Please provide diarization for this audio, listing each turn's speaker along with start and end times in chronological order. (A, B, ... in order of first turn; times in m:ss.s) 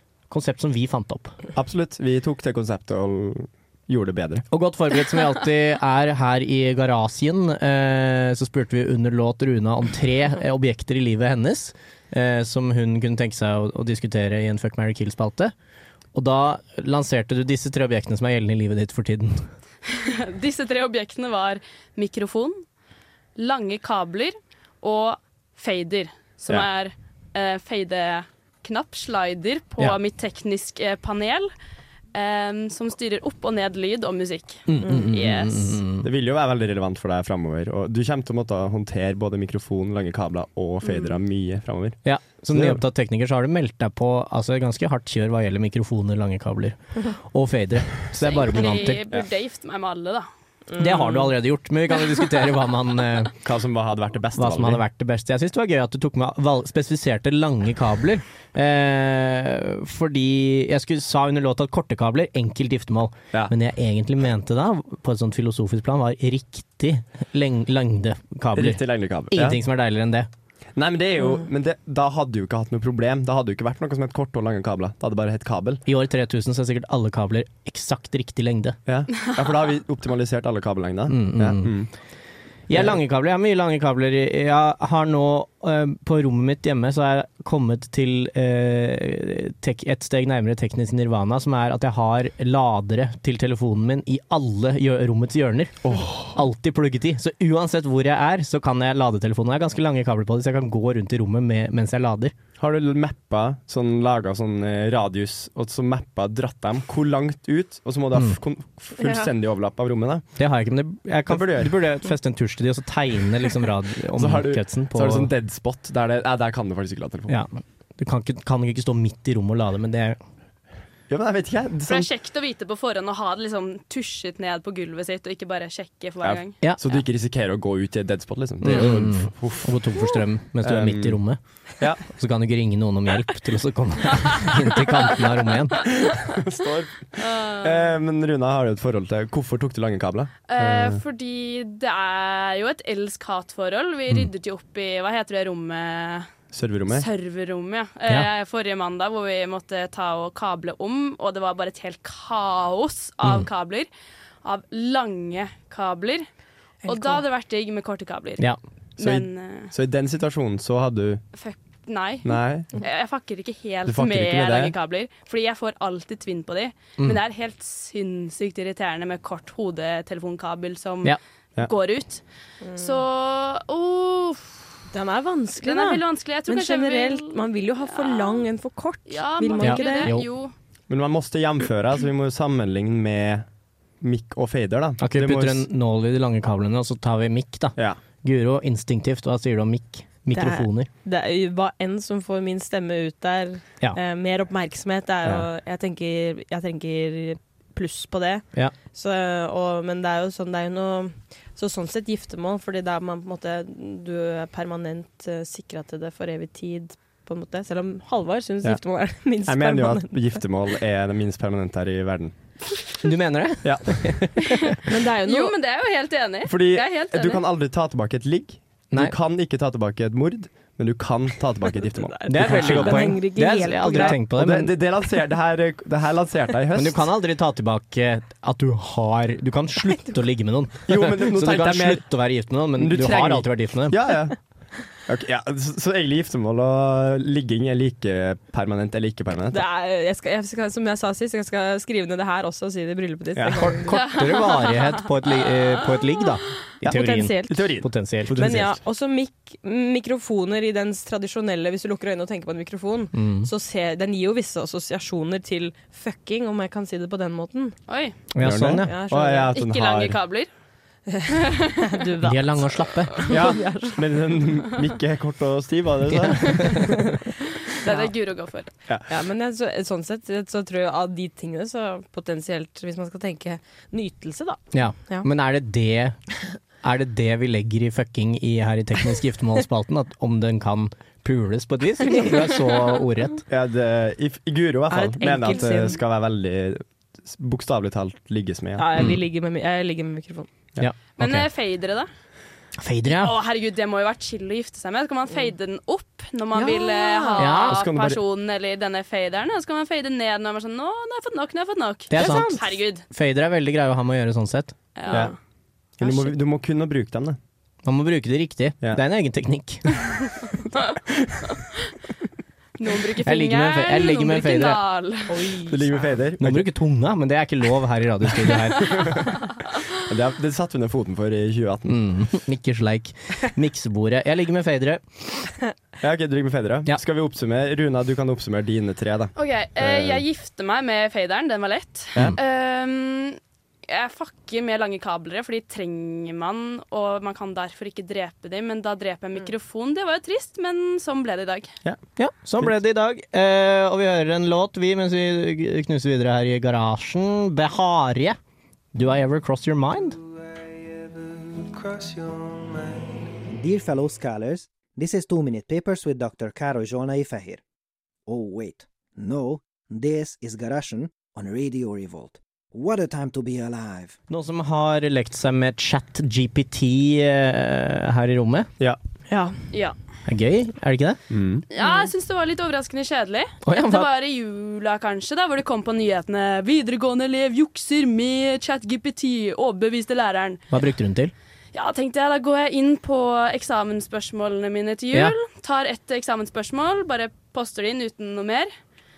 0:00.3-0:01.4 A
0:01.5-0:04.4 B
0:04.5-0:15.5 A
0:16.1-0:19.5 A
0:19.9-0:22.6 C
0:23.4-0:31.5 C
0:32.1-0:35.8 C
0:34.7-0:36.1 A
0:36.0-0:42.8 B
0:40.8-0:41.2 C
0:42.0-0:49.0 A
0:48.2-0:50.3 C
0:50.7-0:51.3 D
0:50.8-0:53.3 A
0:53.4-0:54.8 B
0:54.4-1:10.3 A
1:08.5-1:09.6 B
1:10.8-1:15.8 B
1:15.8-1:18.8 A
1:18.9-1:21.9 B
1:21.1-1:21.9 A
1:22.7-1:42.3 A
1:22.7-1:23.0 B
1:35.8-1:36.3 B
1:42.6-1:50.3 B
1:49.0-1:49.2 D
1:50.4-1:55.3 A
1:51.3-1:51.7 B
1:54.2-1:57.4 B
1:57.3-2:00.2 A
2:01.1-2:02.1 B
2:01.9-2:06.6 C
2:06.2-2:10.0 B
2:08.6-2:11.4 A
2:10.6-2:11.2 B
2:12.0-2:15.9 A
2:16.0-2:21.0 B
2:17.2-2:17.9 C
2:20.5-2:26.3 C
2:26.5-2:27.0 B
2:26.9-2:33.9 C
2:34.4-2:36.3 C
2:36.8-2:37.2 D
2:36.8-2:39.7 C
2:39.0-2:41.2 B
2:41.3-2:52.2 C
2:42.2-2:42.7 B
2:43.8-2:44.7 B
2:52.6-2:53.0 D
2:52.8-2:54.6 C
2:54.9-3:00.1 D
2:55.6-2:58.4 C
2:59.1-3:00.5 C
2:59.6-3:00.3 A
3:00.9-3:03.4 B
3:04.0-3:05.6 B
3:05.0-3:10.9 A
3:10.3-3:30.4 D
3:29.4-3:32.3 B
3:33.0-3:34.8 A
3:33.6-3:34.4 B
3:34.9-3:35.5 D
3:35.2-3:37.4 C
3:36.5-3:43.2 B
3:42.0-3:44.2 D
3:42.3-3:44.7 A
3:43.8-3:47.0 B
3:46.7-3:54.0 A
3:50.9-3:54.4 B
3:54.9-3:59.6 B
3:59.5-4:04.0 D
4:03.4-4:03.7 B
4:03.5-4:08.6 A
4:04.1-4:04.8 C
4:06.9-4:07.8 D
4:07.5-4:08.8 B
4:08.3-4:17.8 D
4:13.1-4:13.5 A
4:17.9-4:18.1 C
4:18.3-4:18.9 A
4:18.4-4:20.2 B
4:18.8-4:19.5 D
4:19.5-4:20.5 C
4:21.1-4:24.0 D
4:22.2-4:23.2 A
4:23.3-4:27.0 B
4:26.1-4:26.8 A
4:26.7-4:27.1 D
4:27.8-4:28.7 C
4:27.8-4:28.1 D
4:29.1-4:35.3 D
4:34.7-4:36.2 A
4:36.8-4:43.4 A
4:43.5-4:49.1 B
4:44.9-4:46.0 D
4:48.8-4:50.5 D
4:50.8-4:51.5 A
4:51.2-4:52.1 C
4:52.8-4:53.4 A
4:53.2-5:03.0 C
4:56.6-4:57.4 D
4:57.4-4:57.8 A
4:57.6-4:58.2 B
5:02.1-5:04.7 A
5:02.1-5:02.6 D
5:05.0-5:05.3 C
5:06.0-5:07.4 B
5:07.8-5:10.0 A
5:12.8-5:15.4 C
5:13.2-5:14.8 A
5:15.3-5:16.1 D
5:15.7-5:16.7 B
5:16.4-5:19.2 A
5:20.0-5:22.0 B
5:21.9-5:25.0 A
5:26.0-5:30.2 B
5:29.4-5:41.7 C
5:42.2-5:48.4 A
5:48.9-5:50.2 A
5:51.6-5:57.6 E
5:58.2-6:04.2 E
6:04.3-6:08.7 A
6:09.3-6:09.5 D
6:10.2-6:11.2 A
6:11.3-6:11.6 B
6:11.7-6:20.6 C
6:11.8-6:12.1 D
6:13.6-6:14.1 A
6:20.7-6:21.3 A
6:21.7-6:28.7 C